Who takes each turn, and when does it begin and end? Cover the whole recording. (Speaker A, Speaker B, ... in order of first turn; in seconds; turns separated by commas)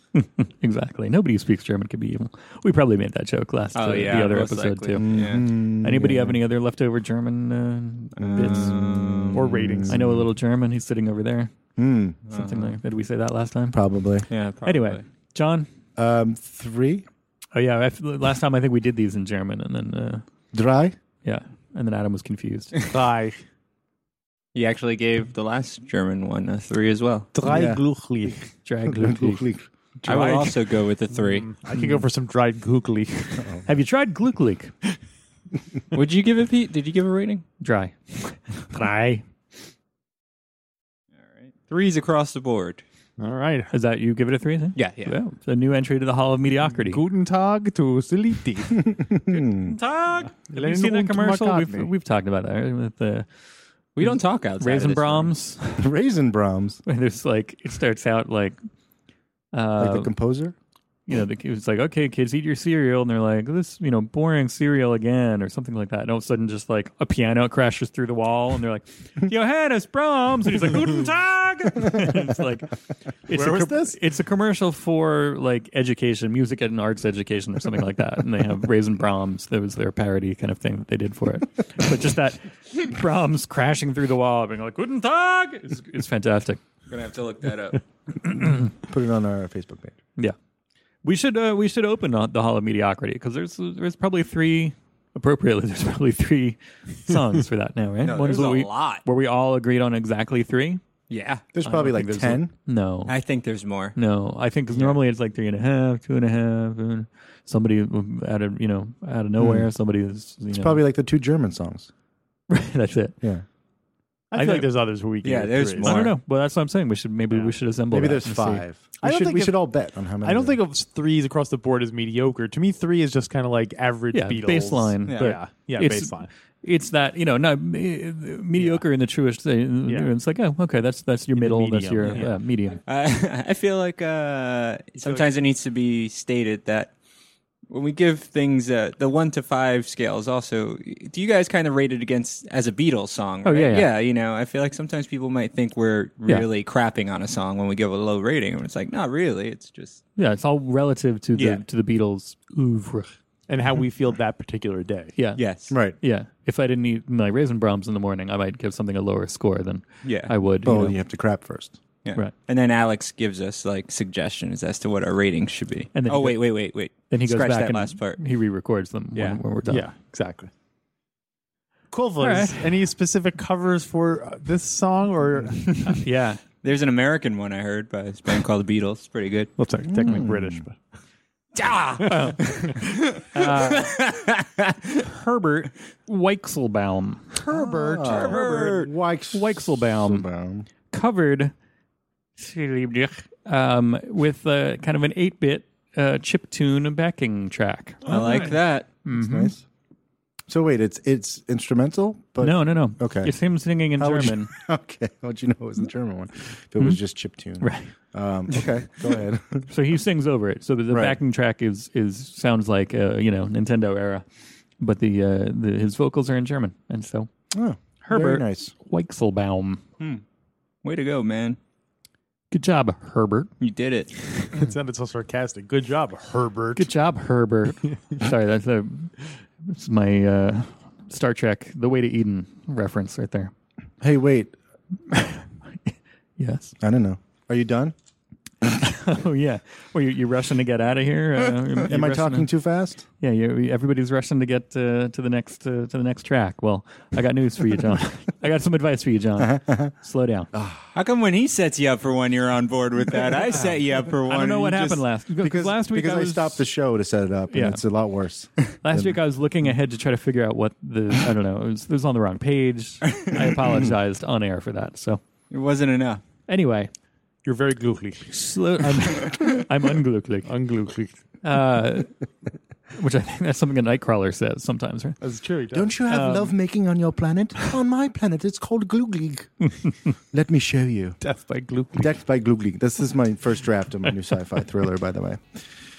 Speaker A: 0.1-9.2, Speaker B: 3.7-5.4, Speaker C: 4.9-6.4, Speaker B: 8.2-9.5, Speaker C: 8.2-8.6, Speaker D: 9.3-10.0, Speaker C: 9.4-10.3, Speaker A: 9.9-11.5, Speaker C: 11.8-12.2, Speaker B: 12.3-12.8, Speaker A: 12.3-13.8, Speaker C: 13.7-14.3, Speaker B: 14.3-15.0, Speaker A: 14.6-15.7, Speaker C: 15.9-17.0, Speaker A: 17.5-20.2, Speaker C: 20.5-20.9, Speaker A: 21.2-22.8, Speaker D: 22.9-23.4, Speaker B: 24.5-27.3, Speaker D: 27.3-28.5, Speaker C: 27.4-27.8, Speaker A: 28.6-29.4, Speaker C: 28.8-29.7, Speaker B: 30.0-31.5, Speaker A: 30.1-30.6, Speaker D: 31.1-33.6, Speaker A: 31.7-32.0, Speaker C: 33.4-33.6, Speaker A: 33.6-34.7, Speaker B: 35.9-37.4, Speaker A: 37.6-39.2, Speaker B: 41.4-42.8, Speaker D: 43.2-43.7, Speaker A: 43.7-47.0, Speaker B: 44.8-45.1, Speaker D: 46.8-48.8, Speaker C: 48.8-49.7, Speaker B: 49.5-50.3, Speaker A: 49.7-53.3, Speaker D: 50.5-51.9, Speaker B: 54.0-55.3, Speaker A: 54.0-55.9, Speaker C: 55.7-56.8, Speaker A: 56.9-58.6, Speaker A: 59.5-60.1, Speaker C: 59.8-60.5, Speaker A: 61.1-86.6, Speaker D: 73.3-74.0, Speaker B: 86.9-87.8, Speaker A: 88.2-88.7, Speaker C: 88.7-89.9, Speaker A: 91.0-100.8, Speaker B: 98.0-99.0, Speaker B: 101.1-101.5, Speaker C: 101.5-102.5, Speaker A: 101.6-103.2, Speaker B: 103.0-104.0, Speaker A: 103.9-110.8, Speaker B: 104.7-105.0, Speaker C: 109.4-109.7, Speaker C: 110.5-111.9, Speaker A: 112.5-113.2, Speaker D: 114.3-116.0, Speaker A: 114.3-114.7, Speaker B: 115.2-116.2, Speaker A: 115.8-118.6, Speaker D: 117.3-117.5, Speaker C: 117.9-120.6, Speaker D: 119.0-119.6, Speaker D: 120.2-126.3, Speaker A: 124.1-132.8, Speaker B: 125.0-125.3, Speaker D: 128.6-128.8, Speaker D: 129.8-130.1, Speaker D: 131.3-132.3, Speaker B: 132.0-132.3, Speaker B: 132.8-136.9, Speaker D: 135.0-135.3, Speaker B: 137.7-150.0, Speaker A: 143.4-143.9, Speaker A: 150.2-153.1, Speaker D: 151.3-151.6, Speaker D: 153.5-155.1, Speaker A: 155.2-160.9, Speaker B: 155.3-155.8, Speaker C: 155.7-156.0, Speaker B: 160.0-160.3, Speaker C: 160.6-161.8, Speaker B: 162.0-168.2, Speaker A: 165.9-169.9, Speaker B: 169.1-169.4, Speaker D: 169.7-170.5, Speaker D: 171.9-176.0, Speaker A: 172.2-172.8, Speaker A: 176.0-176.4, Speaker B: 176.6-179.5, Speaker D: 179.6-180.8, Speaker C: 179.9-180.6, Speaker B: 181.5-184.7, Speaker A: 182.1-184.1, Speaker A: 185.0-187.4, Speaker D: 187.4-188.2, Speaker C: 187.5-190.7, Speaker B: 188.0-188.9, Speaker A: 188.2-188.8, Speaker A: 189.3-190.3, Speaker A: 190.9-191.5, Speaker A: 192.4-199.5, Speaker B: 198.1-198.9, Speaker C: 199.1-199.6, Speaker C: 200.5-203.4, Speaker A: 202.4-204.5, Speaker C: 203.9-209.7, Speaker A: 207.6-207.9, Speaker A: 209.7-214.2, Speaker C: 210.9-211.2, Speaker A: 214.8-217.3, Speaker C: 217.5-218.7, Speaker A: 218.0-219.8, Speaker B: 220.8-221.6, Speaker A: 222.5-223.5, Speaker B: 223.6-224.4, Speaker D: 224.5-226.9, Speaker A: 226.8-233.5, Speaker C: 234.0-234.5, Speaker A: 235.1-236.7, Speaker C: 236.8-237.9, Speaker A: 238.7-242.5, Speaker C: 241.8-243.1, Speaker A: 243.2-250.5, Speaker C: 249.4-249.9, Speaker C: 250.5-250.9, Speaker B: 250.9-255.1, Speaker A: 254.2-256.7, Speaker C: 255.4-259.7, Speaker A: 257.5-257.8, Speaker A: 258.8-265.2, Speaker C: 263.6-263.9, Speaker B: 265.5-266.2, Speaker A: 266.5-266.9, Speaker D: 267.4-268.3, Speaker A: 268.3-270.5, Speaker D: 270.4-271.2, Speaker A: 271.4-272.1, Speaker A: 272.9-275.2, Speaker D: 275.2-276.0, Speaker C: 275.7-281.2, Speaker A: 276.1-276.5, Speaker D: 281.2-282.1, Speaker C: 281.9-285.4